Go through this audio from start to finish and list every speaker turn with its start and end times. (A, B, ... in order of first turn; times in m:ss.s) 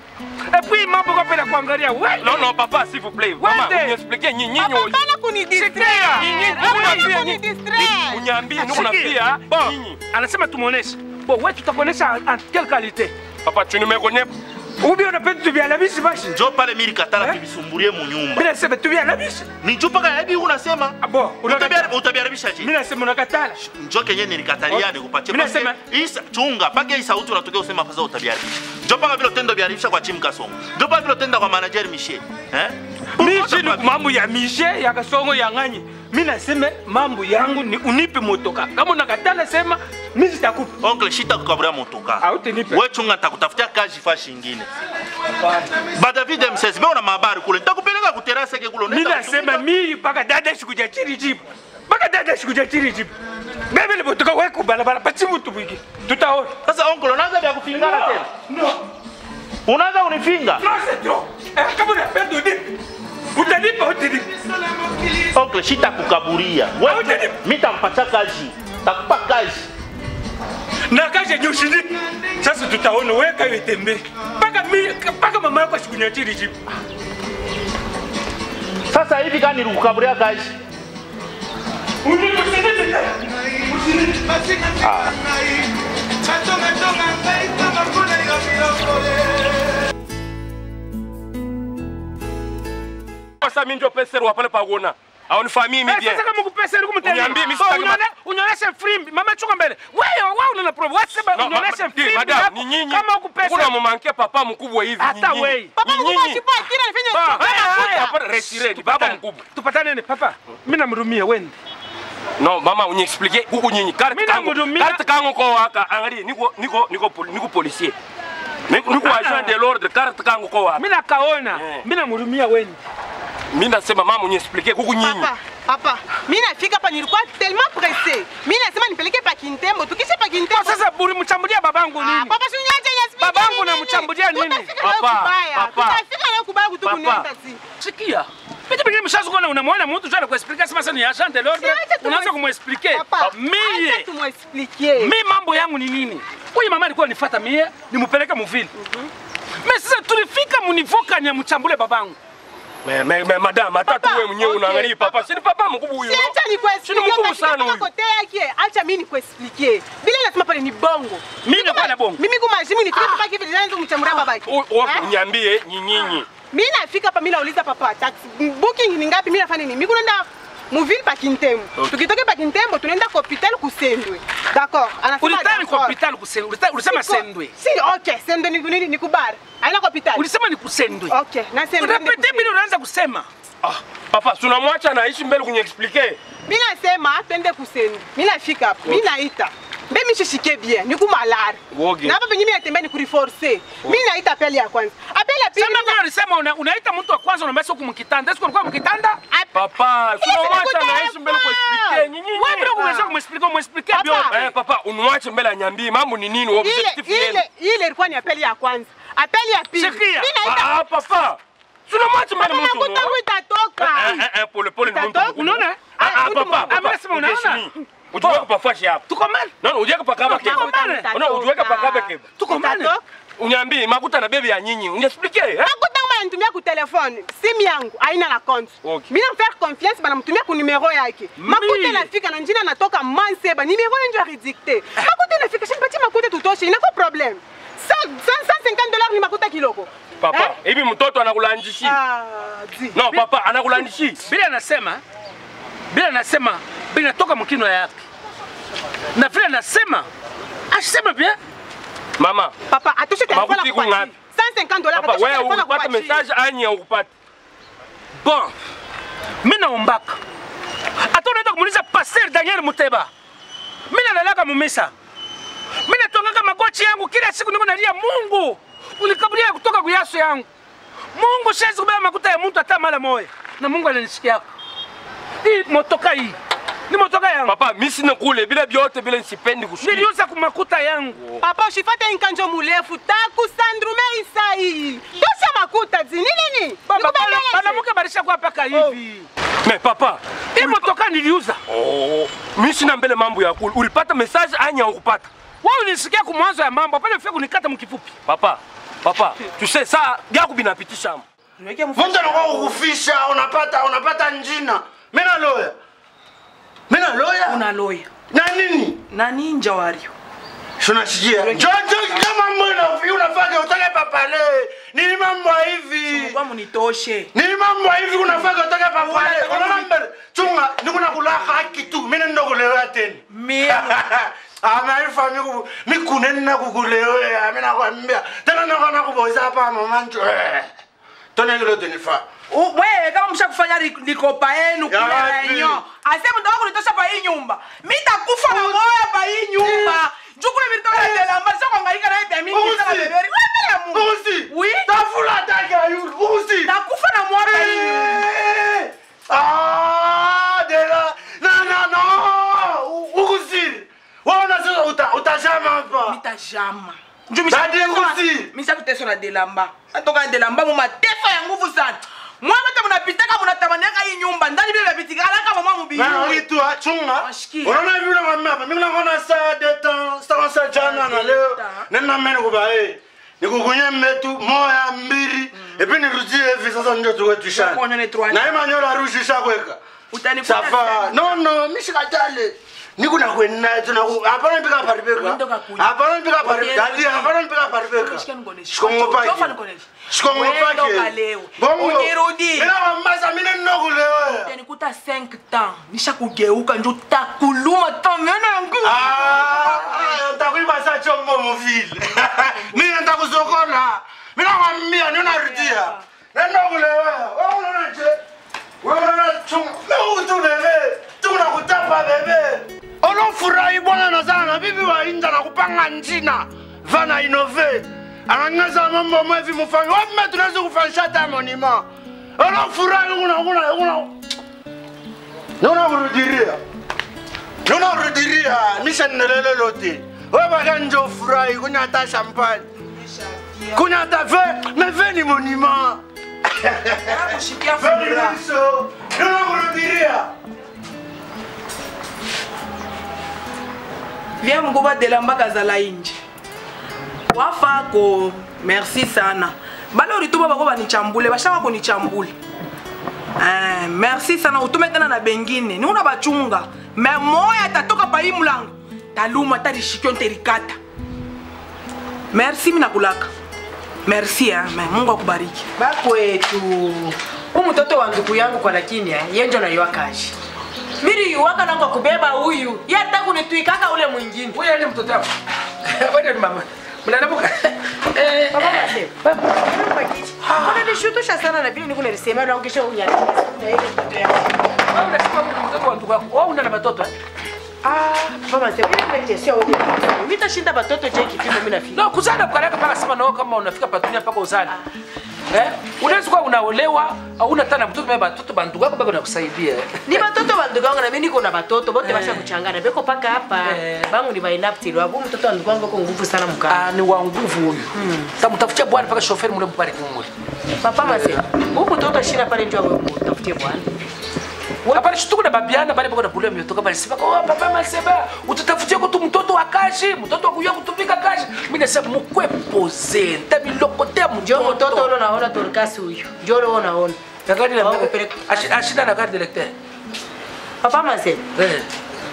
0:00.5-0:02.5 A
0:02.2-0:05.0 B
0:03.4-0:04.0 A
0:04.6-0:08.3 C
0:05.5-0:07.4 A
0:06.2-0:10.0 B
0:08.5-0:13.1 A
0:13.4-0:14.3 B
0:14.8-0:16.4 A
0:16.2-0:18.5 D
0:18.4-0:19.5 A
0:19.6-0:22.7 D
0:21.0-0:21.9 A
0:22.6-0:23.6 A
0:23.8-0:34.0 D
0:24.7-0:25.8 A
0:33.2-0:40.7 A
0:37.3-0:37.8 E
0:40.8-0:44.7 D
0:42.2-0:42.8 A
0:45.4-0:45.8 A
0:45.9-0:49.7 D
0:48.9-0:53.1 A
0:53.7-0:56.6 A
0:56.6-0:58.3 D
0:57.7-0:58.8 A
0:59.7-1:00.6 D
1:00.6-1:02.8 A
1:03.4-1:05.1 A
1:05.3-1:09.7 D
1:06.8-1:07.4 A
1:10.9-1:16.6 A
1:18.9-1:20.6 D
1:22.0-1:23.2 A
1:23.7-1:24.3 A
1:24.8-1:25.1 B
1:33.4-1:36.2 B
1:35.9-1:43.7 A
1:37.0-1:38.0 B
1:41.4-1:46.4 B
1:45.0-1:45.7 A
1:45.8-1:48.1 C
1:47.1-1:51.6 A
1:47.3-1:49.4 B
1:52.4-1:58.0 B
1:54.1-1:55.0 A
1:58.7-2:00.8 B
1:59.0-1:59.6 A
2:00.8-2:02.8 A
2:01.6-2:01.8 B
2:03.5-2:05.3 B
2:05.0-2:10.8 C
2:10.5-2:12.3 A
2:12.0-2:17.6 C
2:13.2-2:14.8 A
2:14.8-2:16.0 B
2:16.8-2:17.2 B
2:17.8-2:24.1 A
2:21.5-2:25.2 C
2:25.0-2:28.7 A
2:28.8-2:29.1 C
2:29.6-2:32.2 A
2:32.8-2:37.9 B
2:33.8-2:35.2 C
2:36.0-2:45.1 C
2:41.4-2:42.2 A
2:44.1-2:46.3 B
2:46.5-2:56.0 C
2:55.2-2:57.5 A
2:56.8-3:00.2 C
3:00.2-3:01.2 A
3:01.1-3:02.5 C
3:01.8-3:03.3 A
3:03.6-3:06.2 B
3:06.5-3:16.0 C
3:11.7-3:12.2 B
3:15.6-3:19.2 A
3:19.3-3:22.1 C
3:19.5-3:22.8 B
3:22.3-3:24.4 A
3:22.6-3:23.1 C
3:23.9-3:24.5 C
3:24.3-3:27.4 B
3:26.6-3:30.7 C
3:29.8-3:30.3 A
3:30.4-3:31.4 B
3:31.9-3:33.1 B
3:31.9-3:32.2 A
3:32.4-3:34.2 C
3:33.8-3:39.0 B
3:34.9-3:36.8 C
3:35.0-3:38.5 A
3:39.1-3:39.5 A
3:39.6-3:42.3 B
3:40.2-3:43.0 C
3:40.2-3:41.1 A
3:42.4-3:42.9 A
3:43.4-3:45.7 B
3:45.6-4:00.5 C
3:51.4-3:52.1 A
4:00.2-4:02.0 B
4:01.8-4:03.2 C
4:02.9-4:04.2 B
4:04.2-4:05.0 A
4:05.9-4:08.0 A
4:09.2-4:10.1 A
4:10.7-4:11.4 A
4:12.2-4:12.5 B
4:12.7-4:16.2 C
4:13.3-4:14.1 B
4:14.9-4:17.1 B
4:18.2-4:18.5 A
4:19.4-4:20.2 A
4:21.0-4:23.1 A
4:23.9-4:24.9 A
4:25.8-4:30.5 A
4:31.1-4:34.4 A
4:35.4-4:36.4 A
4:36.9-4:37.6 A
4:37.5-4:40.1 B
4:39.8-4:41.2 A
4:41.4-4:47.8 C
4:46.9-4:49.3 A
4:49.6-4:50.9 B
4:50.6-4:51.6 A
4:51.7-4:55.3 B
4:55.6-4:58.1 A
4:58.3-5:01.2 B
5:01.6-5:02.8 E
5:02.0-5:05.8 F
5:06.9-5:07.6 F
5:07.5-5:08.1 E
5:08.3-5:09.0 F
5:09.1-5:10.1 E
5:10.8-5:16.4 F
5:11.4-5:12.3 E
5:16.1-5:17.3 E
5:17.3-5:30.7 F
5:19.0-5:19.9 E
5:21.5-5:21.8 E
5:23.3-5:24.0 E
5:31.4-5:32.3 F
5:32.5-5:45.0 E
5:34.9-5:35.8 F
5:38.5-5:38.8 F
5:39.6-5:40.0 F
5:40.9-5:41.3 F
5:42.5-5:43.2 F
5:43.9-5:46.8 F
5:46.6-5:48.3 E
5:47.4-5:56.2 F
5:56.1-6:06.5 E
5:57.5-5:58.5 F
6:05.9-6:19.8 F
6:07.2-6:07.8 E
6:10.7-6:11.9 E
6:17.5-6:18.5 E
6:20.1-6:21.3 E
6:20.4-6:29.6 F
6:25.2-6:27.3 E
6:27.9-6:32.7 E
6:30.1-6:34.5 F
6:34.4-6:40.2 E
6:38.8-6:48.2 F
6:45.1-6:46.0 E
6:48.8-7:01.8 F
7:02.4-7:04.1 F
7:05.6-7:06.6 F
7:07.6-7:12.7 F
7:12.9-7:13.9 E
7:13.7-7:20.3 F
7:17.0-7:18.4 E
7:24.4-7:26.2 E
7:27.3-7:32.4 E
7:33.4-7:40.8 E
7:42.3-7:43.3 E
7:44.1-7:45.7 E
7:45.8-7:50.3 G
7:51.0-7:54.6 G
7:54.5-7:55.3 A
7:55.8-7:59.5 A
7:58.5-8:04.5 G
8:00.4-8:00.9 A
8:04.9-8:07.1 A
8:07.8-8:12.0 G
8:11.9-8:14.8 A
8:15.5-8:20.2 A
8:20.1-8:26.9 G
8:22.0-8:22.5 A
8:23.6-8:24.1 A
8:26.7-8:30.3 A
8:27.9-8:28.3 G
8:30.8-8:33.9 G
8:31.0-8:31.4 A
8:34.9-8:45.1 A
8:44.4-8:47.2 G
8:47.5-8:49.7 A
8:47.8-8:48.7 G
8:50.8-8:51.4 G
8:51.6-8:51.9 A